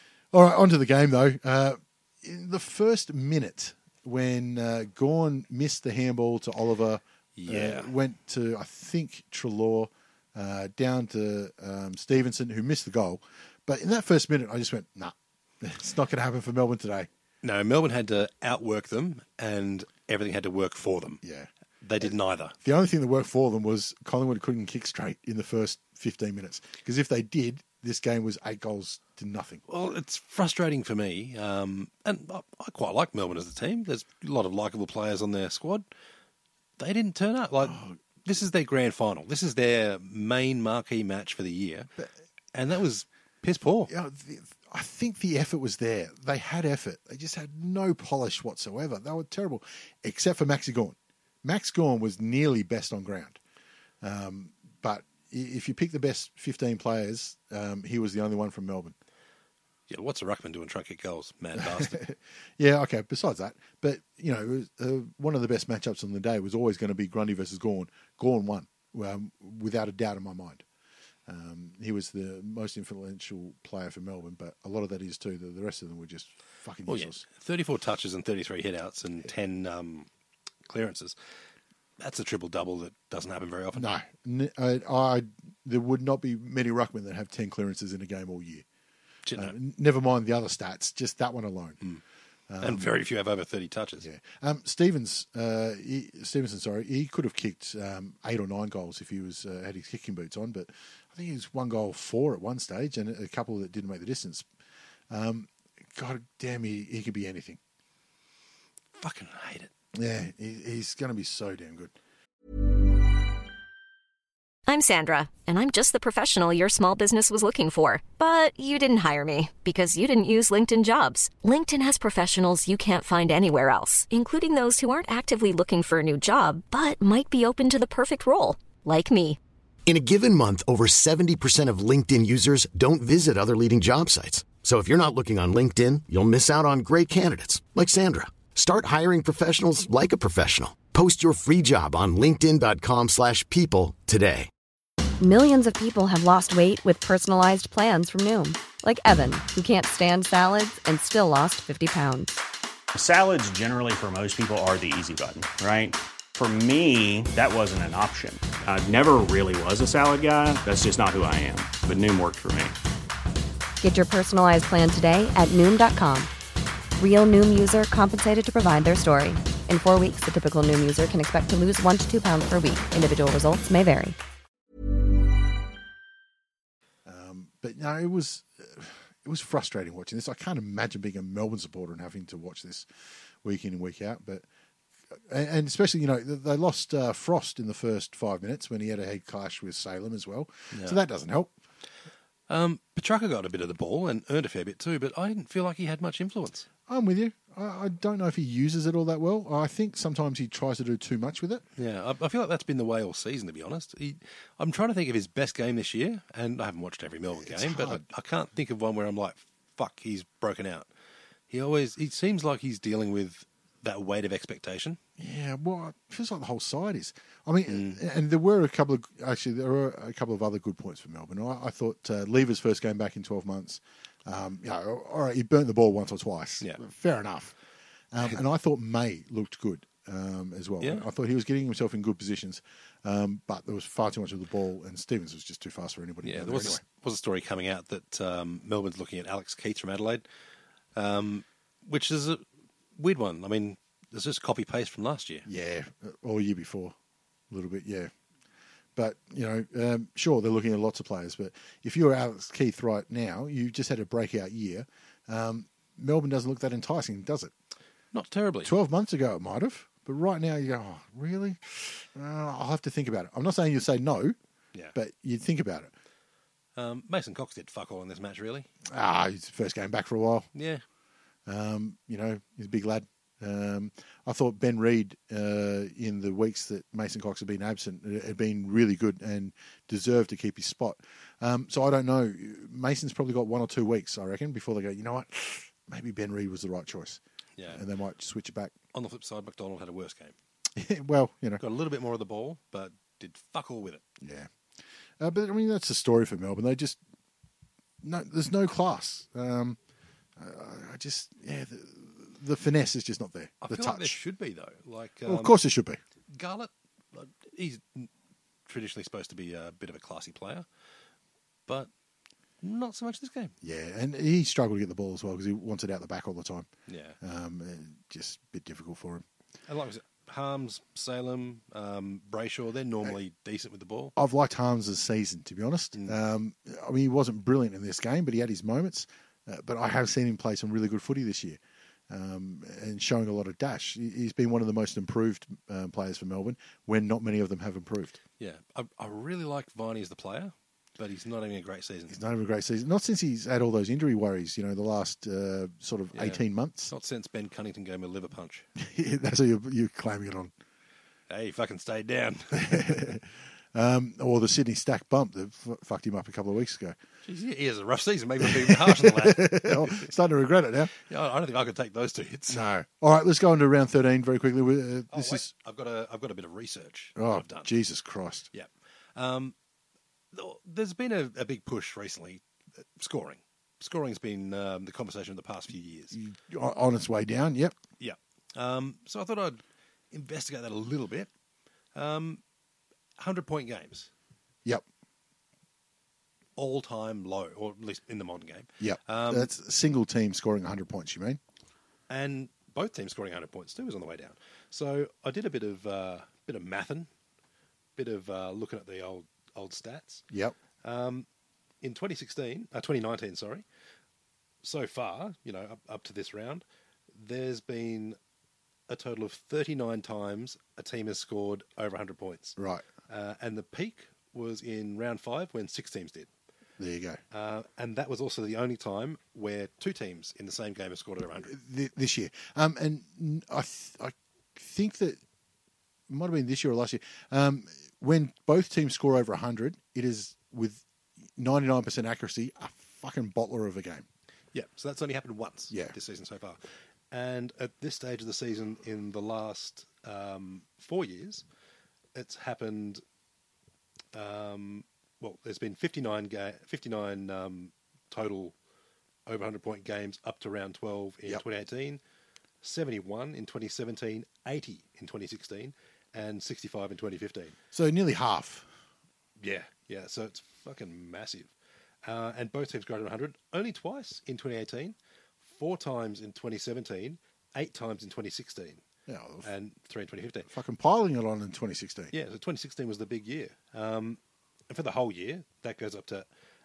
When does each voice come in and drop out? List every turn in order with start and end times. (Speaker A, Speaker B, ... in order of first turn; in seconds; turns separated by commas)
Speaker A: 0.3-17.1, Speaker B: 7.4-7.9, Speaker B: 17.4-21.2, Speaker A: 21.2-21.5, Speaker B: 21.8-22.5, Speaker A: 22.0-29.6, Speaker B: 29.7-35.9, Speaker B: 36.8-41.9, Speaker A: 37.6-38.0, Speaker B: 42.5-43.9, Speaker A: 43.9-53.4, Speaker A: 54.0-59.0, Speaker B: 59.9-62.0, Speaker A: 61.5-70.6, Speaker A: 71.3-77.2, Speaker B: 76.9-80.1, Speaker B: 80.7-81.2, Speaker B: 82.0-83.9, Speaker A: 83.7-88.6, Speaker B: 89.2-89.5, Speaker A: 89.3-91.8, Speaker A: 92.5-92.9, Speaker B: 92.6-94.1, Speaker A: 94.0-104.5, Speaker A: 105.1-107.6, Speaker B: 108.9-109.7, Speaker A: 109.9-111.9, Speaker C: 114.7-129.4, Speaker D: 129.8-144.5, Speaker E: 145.2-152.4, Speaker F: 152.9-162.8, Speaker E: 163.8-166.3, Speaker E: 167.0-174.2, Speaker A: 177.0-182.9, Speaker A: 183.4-184.4, Speaker A: 185.1-191.5, Speaker B: 190.7-191.0, Speaker B: 192.5-196.7, Speaker A: 196.9-201.6, Speaker B: 201.8-210.9, Speaker A: 207.3-208.0, Speaker B: 211.5-215.0, Speaker A: 215.2-227.6, Speaker B: 217.7-218.0, Speaker A: 228.1-236.8, Speaker B: 230.8-231.1, Speaker B: 236.2-240.2, Speaker B: 240.9-242.4, Speaker B: 242.9-245.4, Speaker A: 245.4-246.9, Speaker A: 247.5-248.1, Speaker A: 248.9-257.5, Speaker B: 258.1-258.7, Speaker A: 258.6-264.4, Speaker A: 264.9-265.9, Speaker B: 266.8-268.7, Speaker A: 268.9-270.5, Speaker B: 270.5-270.8, Speaker A: 271.4-288.7, Speaker B: 287.6-287.8, Speaker B: 288.9-290.3, Speaker A: 290.8-291.6, Speaker B: 291.6-294.0, Speaker A: 294.2-294.5, Speaker A: 295.2-297.0, Speaker A: 298.0-299.8, Speaker A: 300.4-304.2, Speaker B: 303.6-305.6, Speaker A: 305.2-306.0, Speaker B: 306.3-308.1, Speaker B: 308.6-310.6, Speaker B: 312.6-313.5, Speaker A: 313.6-316.7, Speaker B: 316.9-317.2, Speaker A: 317.2-319.2, Speaker B: 319.7-324.1, Speaker A: 324.1-338.2, Speaker B: 338.4-342.2, Speaker A: 342.1-346.9, Speaker B: 346.1-348.6, Speaker A: 348.8-350.5, Speaker B: 351.3-353.1, Speaker A: 352.5-356.9, Speaker B: 357.2-360.1, Speaker A: 358.4-360.9, Speaker B: 360.9-362.6, Speaker A: 362.5-365.5, Speaker B: 365.1-367.7, Speaker A: 367.1-368.5, Speaker B: 368.5-369.5, Speaker B: 370.3-372.4, Speaker B: 372.9-376.2, Speaker A: 376.1-377.8, Speaker B: 378.0-381.3, Speaker B: 381.9-382.4, Speaker B: 383.2-384.1, Speaker B: 386.6-389.5, Speaker A: 388.8-391.4, Speaker B: 392.1-397.1, Speaker B: 398.0-400.2, Speaker A: 400.3-400.5, Speaker B: 400.8-401.3, Speaker B: 401.8-403.6, Speaker B: 404.6-408.2, Speaker B: 408.9-412.6, Speaker A: 412.6-412.9, Speaker B: 413.1-416.3, Speaker A: 416.8-417.2, Speaker B: 417.3-421.5, Speaker A: 421.4-425.2, Speaker A: 426.1-430.8, Speaker A: 431.4-434.1, Speaker B: 434.5-441.4, Speaker A: 435.7-435.9, Speaker B: 442.1-443.0, Speaker B: 444.1-448.5, Speaker B: 449.2-452.0, Speaker B: 452.6-457.6, Speaker A: 457.7-458.7, Speaker B: 459.4-461.5, Speaker B: 462.0-468.8, Speaker A: 469.1-469.5, Speaker B: 469.4-470.5, Speaker A: 470.5-472.1, Speaker B: 472.1-474.2, Speaker B: 474.7-476.2